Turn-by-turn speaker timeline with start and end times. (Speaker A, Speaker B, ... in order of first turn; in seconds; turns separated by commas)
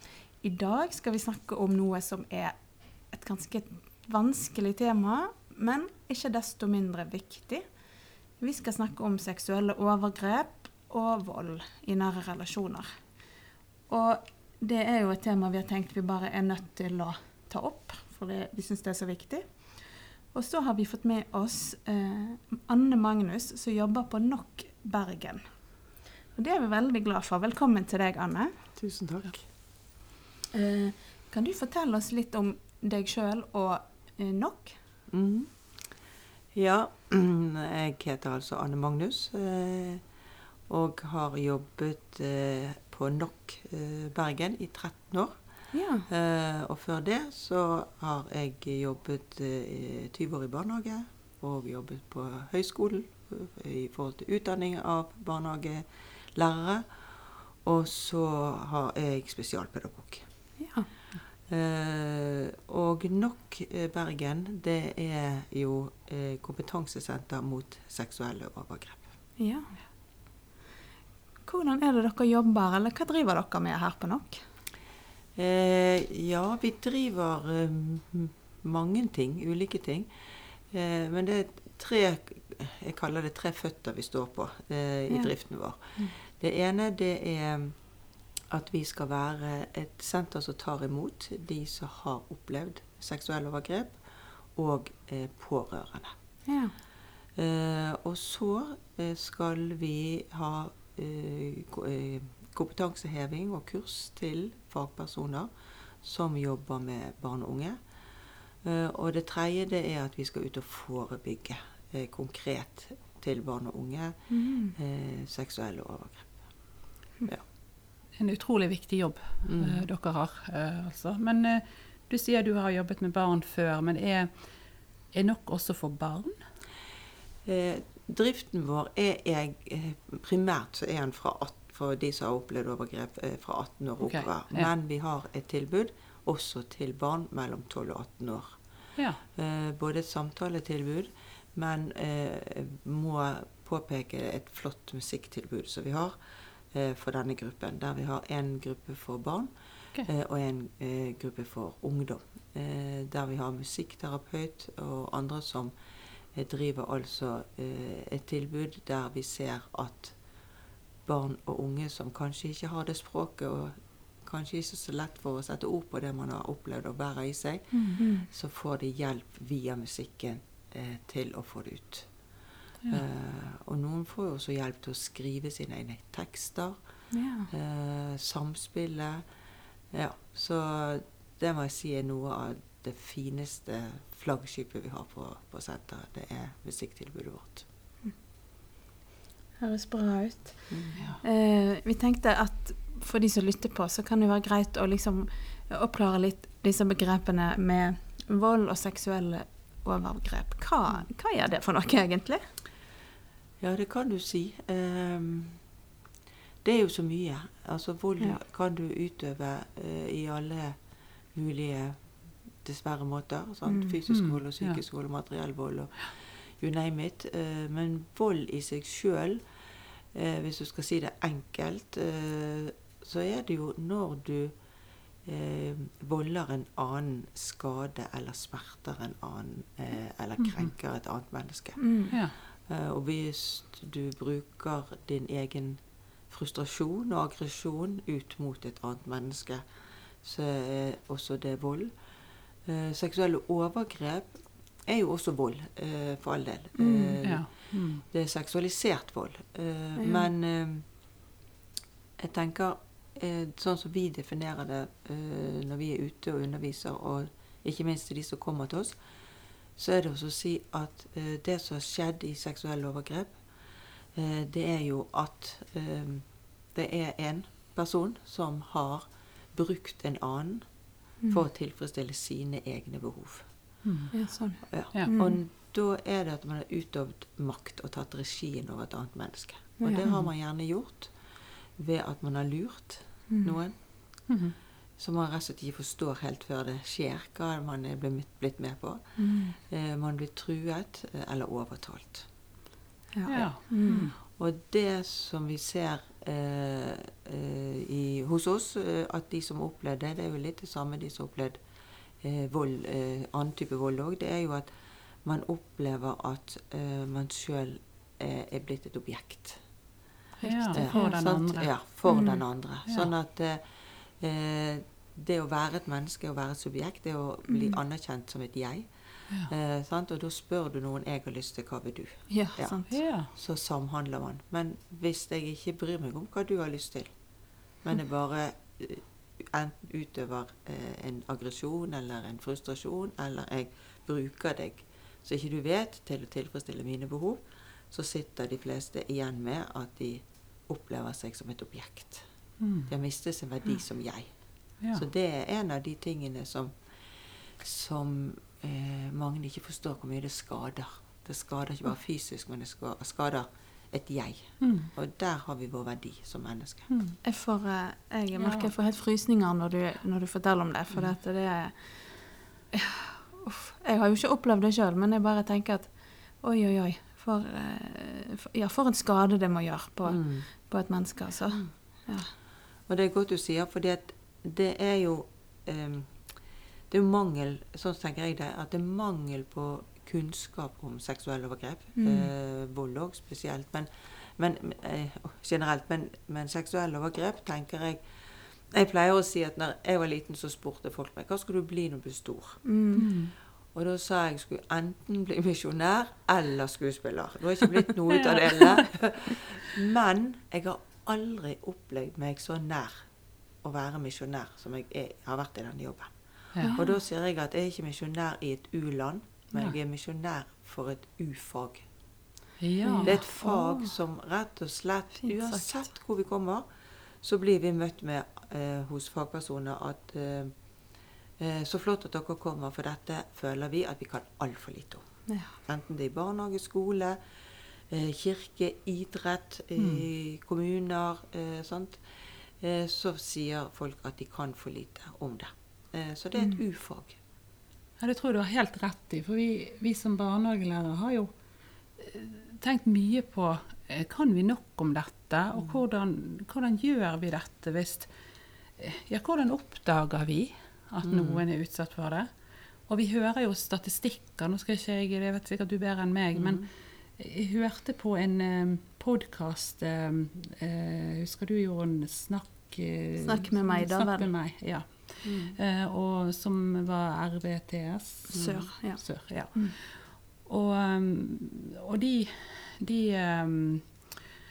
Speaker A: 0.4-2.6, Speaker A: 3.1-7.6, Speaker A: 8.4-12.9, Speaker A: 13.9-25.5, Speaker A: 26.3-28.6, Speaker B: 28.8-29.5, Speaker A: 30.5-34.8, Speaker B: 35.1-35.9, Speaker B: 36.5-40.0, Speaker B: 40.7-45.4, Speaker A: 45.7-46.0, Speaker B: 46.0-60.2, Speaker A: 60.6-60.9, Speaker B: 61.5-69.0, Speaker A: 69.4-69.7, Speaker A: 71.5-74.4, Speaker B: 75.3-87.8, Speaker B: 88.5-96.1, Speaker A: 96.5-96.7, Speaker B: 97.3-105.5, Speaker B: 106.0-107.8, Speaker B: 108.6-114.2, Speaker A: 114.3-114.7, Speaker B: 114.7-116.4, Speaker C: 118.2-124.5, Speaker B: 119.4-119.8, Speaker C: 125.1-126.4, Speaker B: 127.4-138.6, Speaker C: 134.0-134.7, Speaker B: 139.3-146.2, Speaker B: 146.7-155.7, Speaker B: 156.3-160.2, Speaker B: 161.1-172.1, Speaker A: 167.8-168.3, Speaker B: 172.9-176.8, Speaker A: 177.1-177.5, Speaker B: 177.5-179.2, Speaker B: 179.9-187.7, Speaker A: 189.6-202.5, Speaker B: 190.7-191.0, Speaker B: 203.6-205.6, Speaker B: 206.6-210.8, Speaker B: 211.3-212.1, Speaker B: 212.6-219.4, Speaker A: 213.7-213.9, Speaker C: 214.1-214.8, Speaker B: 220.1-224.5, Speaker B: 225.2-239.7, Speaker C: 230.4-230.7, Speaker A: 231.8-232.1, Speaker B: 240.2-241.9, Speaker B: 242.6-250.8, Speaker A: 246.7-247.2, Speaker C: 247.2-248.0, Speaker A: 250.0-250.2, Speaker B: 252.2-259.0, Speaker B: 259.8-263.4, Speaker B: 264.1-270.7, Speaker B: 271.3-273.5, Speaker C: 273.8-274.2, Speaker A: 274.1-275.4, Speaker B: 274.7-281.1, Speaker C: 280.0-280.3, Speaker B: 281.8-283.8, Speaker A: 283.3-283.6, Speaker C: 284.3-284.5, Speaker B: 285.0-292.3, Speaker A: 289.2-289.6, Speaker A: 293.1-294.1, Speaker C: 293.2-294.1, Speaker B: 294.2-301.6, Speaker B: 302.2-304.7, Speaker B: 305.2-309.6, Speaker A: 310.4-311.2, Speaker C: 310.4-311.7, Speaker B: 310.7-327.1, Speaker A: 312.1-312.4, Speaker A: 317.5-317.7, Speaker A: 322.3-323.0, Speaker C: 322.9-323.3, Speaker B: 327.8-342.2, Speaker C: 342.6-342.9, Speaker B: 342.9-356.9, Speaker C: 354.6-354.9, Speaker C: 356.9-357.2, Speaker A: 357.2-372.3, Speaker C: 358.4-358.7, Speaker B: 370.1-370.5, Speaker B: 372.9-376.3, Speaker B: 376.9-392.6, Speaker A: 381.9-382.3, Speaker A: 392.6-393.1, Speaker C: 392.9-393.3, Speaker B: 393.7-403.0, Speaker C: 398.1-398.8, Speaker B: 403.6-411.9, Speaker C: 406.5-406.8, Speaker A: 406.6-406.9, Speaker C: 412.6-413.2, Speaker A: 412.8-413.9, Speaker B: 413.0-416.6, Speaker A: 415.2-415.9, Speaker B: 417.2-420.5, Speaker B: 421.4-427.2, Speaker A: 425.3-425.5, Speaker B: 427.9-437.2, Speaker C: 429.8-430.1, Speaker C: 438.0-441.3, Speaker C: 442.0-448.1, Speaker B: 445.6-445.8, Speaker C: 448.8-474.1, Speaker B: 451.0-451.4, Speaker B: 456.3-456.6, Speaker A: 463.2-464.3, Speaker B: 465.2-465.6, Speaker B: 468.3-468.7, Speaker A: 468.3-469.7